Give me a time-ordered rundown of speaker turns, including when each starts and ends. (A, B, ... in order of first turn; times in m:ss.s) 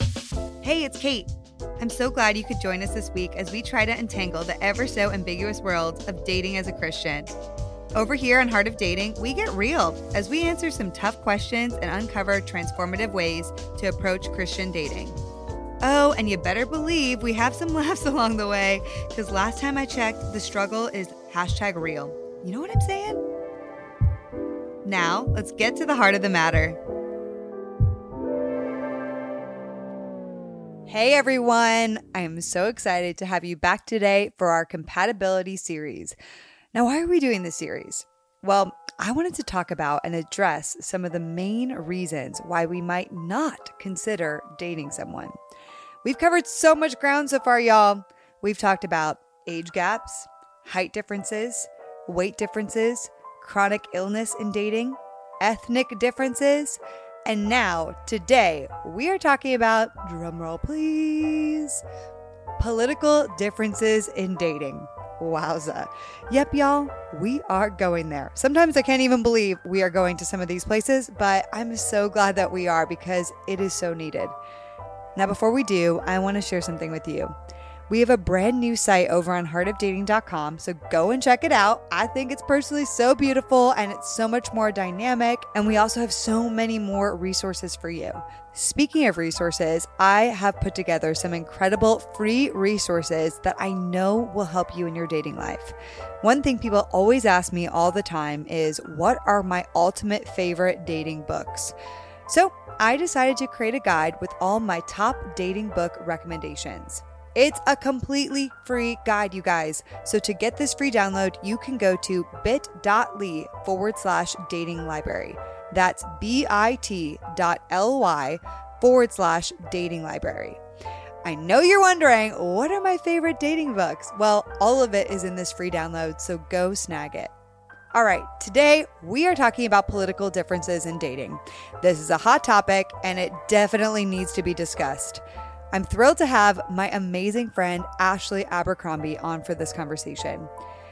0:00.6-0:07.3 A
0:07.9-0:15.2 A
0:15.8-0:23.2 A
0:24.8-0:26.8 A
0:30.9-0:36.2 A
0:36.7-0:45.3 A
0:46.0-1:01.8 A
1:02.6-1:14.3 A
1:15.2-1:17.3 A
1:17.9-1:41.7 A
1:42.3-2:00.6 A
2:01.2-2:07.3 A
2:07.9-2:15.2 A
2:15.7-2:20.5 A